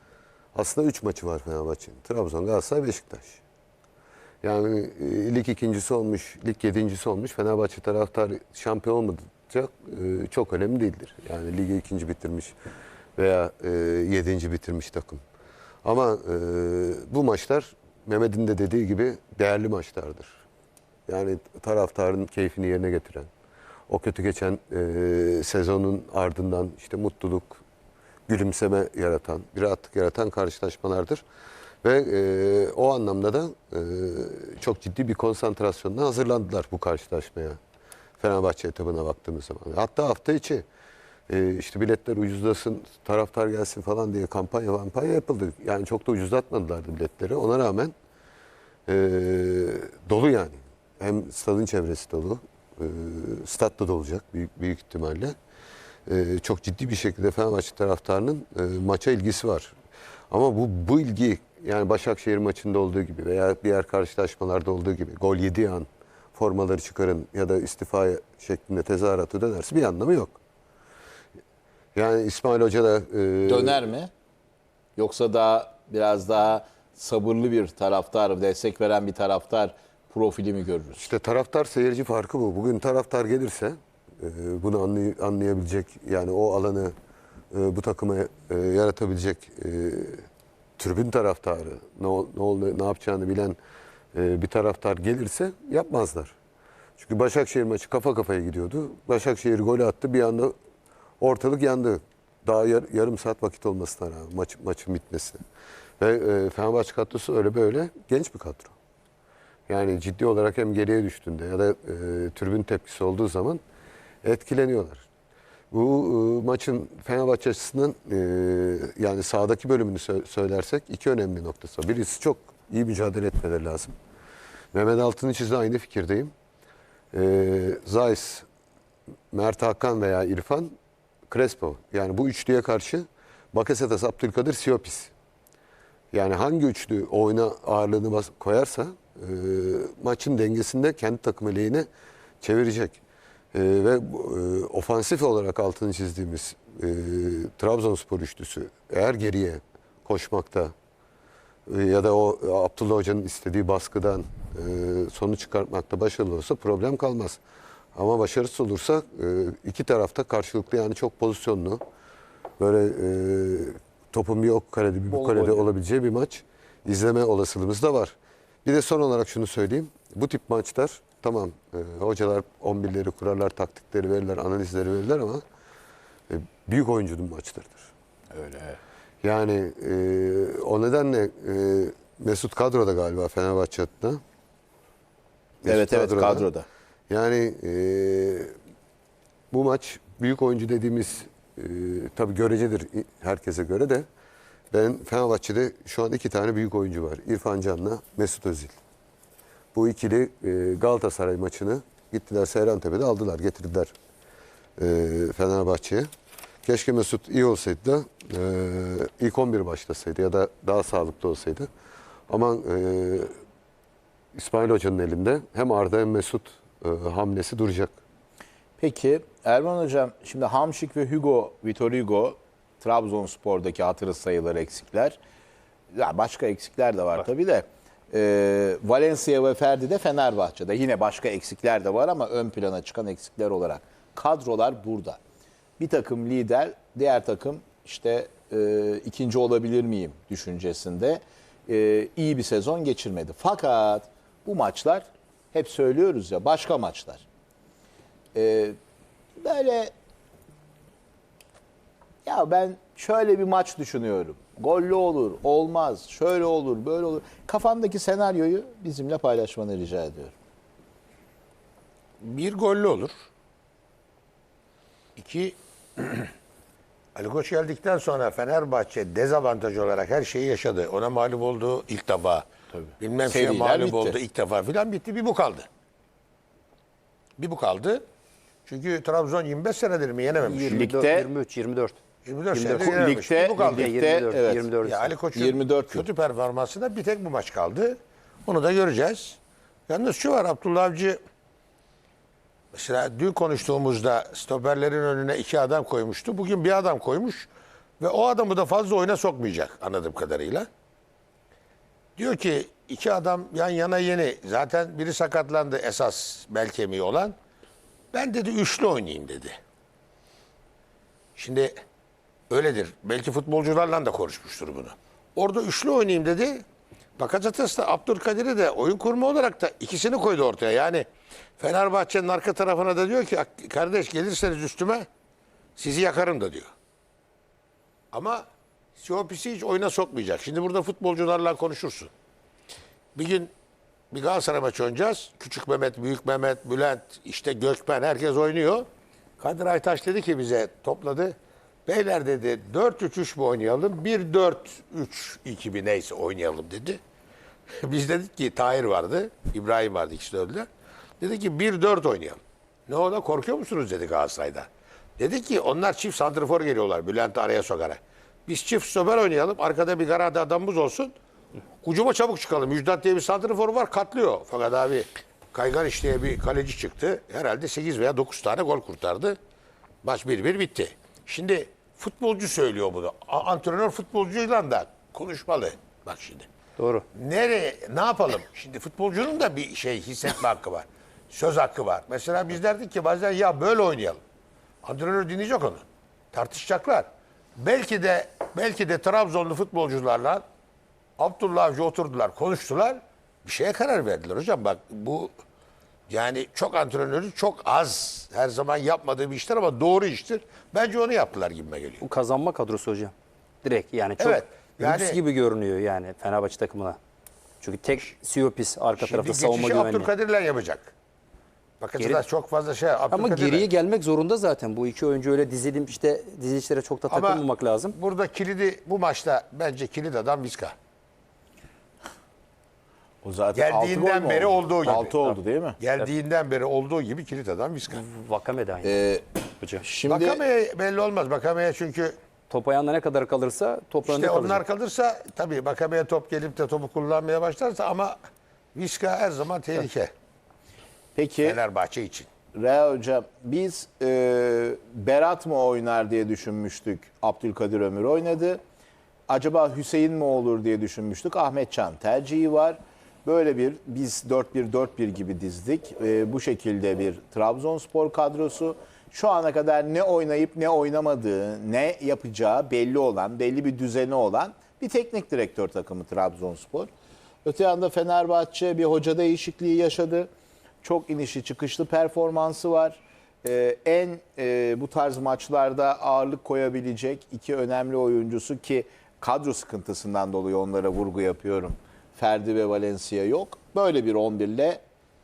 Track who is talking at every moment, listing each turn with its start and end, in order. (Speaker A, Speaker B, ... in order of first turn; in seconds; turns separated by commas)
Speaker A: 0.5-3.4, Speaker A: 4.4-12.5, Speaker A: 13.2-15.2, Speaker A: 15.8-20.4, Speaker A: 21.1-23.3, Speaker A: 23.9-27.6, Speaker A: 28.3-31.2, Speaker A: 31.8-37.6, Speaker A: 38.2-40.6, Speaker A: 41.3-47.9, Speaker A: 48.9-55.3, Speaker A: 56.0-59.7, Speaker A: 60.3-70.4, Speaker A: 71.9-73.9, Speaker B: 73.5-74.1, Speaker B: 75.0-81.0, Speaker A: 81.0-86.9, Speaker A: 87.5-90.2, Speaker A: 90.8-93.6, Speaker A: 94.1-96.3, Speaker A: 97.0-100.5, Speaker A: 101.2-105.4, Speaker A: 106.0-108.7, Speaker A: 109.7-113.6, Speaker A: 114.2-115.0, Speaker A: 115.7-123.9, Speaker A: 124.7-126.3, Speaker A: 127.1-128.4, Speaker A: 129.3-130.7, Speaker A: 131.3-135.1, Speaker A: 136.1-141.9, Speaker A: 142.4-143.0, Speaker A: 143.5-150.7, Speaker A: 151.7-157.4, Speaker A: 157.9-161.8, Speaker A: 162.6-175.4, Speaker C: 165.1-165.6, Speaker A: 176.3-177.9, Speaker B: 178.3-178.8, Speaker A: 179.2-184.2, Speaker A: 185.6-186.5, Speaker B: 185.6-186.7, Speaker A: 187.1-188.5, Speaker A: 189.5-194.1, Speaker A: 194.7-198.7, Speaker A: 199.7-203.9, Speaker A: 204.8-206.1, Speaker A: 206.6-211.7, Speaker A: 212.3-213.3, Speaker A: 214.3-218.0, Speaker B: 218.8-225.2, Speaker B: 225.9-235.2, Speaker B: 235.8-247.2, Speaker B: 248.3-248.8, Speaker B: 249.4-249.9, Speaker B: 252.2-260.3, Speaker D: 262.2-263.1, Speaker D: 265.2-266.3, Speaker D: 267.1-272.4, Speaker B: 272.7-274.2, Speaker D: 273.0-275.7, Speaker D: 277.4-278.0, Speaker D: 278.7-280.8, Speaker C: 280.4-282.0, Speaker B: 280.6-281.3, Speaker D: 282.2-283.9, Speaker C: 282.5-282.9, Speaker B: 282.7-284.7, Speaker C: 283.6-285.1, Speaker D: 284.8-289.4, Speaker B: 285.3-286.0, Speaker D: 289.9-291.2, Speaker D: 292.7-297.5, Speaker D: 298.0-300.7, Speaker D: 302.2-307.4, Speaker D: 308.1-309.6, Speaker D: 311.4-311.7, Speaker D: 312.5-316.6, Speaker D: 317.2-321.1, Speaker D: 321.6-325.1, Speaker D: 325.8-326.7, Speaker D: 328.1-328.4, Speaker D: 329.0-332.1, Speaker D: 333.1-333.5, Speaker D: 334.1-338.9, Speaker D: 339.4-347.0, Speaker D: 347.8-350.7, Speaker D: 351.2-361.1, Speaker D: 361.8-369.4, Speaker D: 370.0-376.5, Speaker C: 376.8-377.0, Speaker D: 377.1-384.2, Speaker D: 384.8-390.4, Speaker D: 391.2-395.3, Speaker D: 396.1-402.0, Speaker C: 402.0-407.0, Speaker D: 404.2-405.2, Speaker C: 407.6-410.1, Speaker D: 409.0-410.9, Speaker D: 411.8-413.7, Speaker C: 412.0-412.2, Speaker C: 413.1-418.0, Speaker D: 417.1-420.7, Speaker B: 423.2-425.8, Speaker D: 423.5-425.1, Speaker C: 424.8-425.4, Speaker D: 425.8-428.0, Speaker C: 427.9-429.0, Speaker B: 428.8-430.4, Speaker C: 429.6-429.9, Speaker D: 430.0-432.1, Speaker C: 432.5-434.6, Speaker D: 434.0-438.2, Speaker D: 438.7-440.1, Speaker B: 441.1-441.6, Speaker D: 441.4-442.3, Speaker B: 442.5-448.6, Speaker B: 449.3-466.9, Speaker B: 467.4-470.3, Speaker B: 470.8-484.8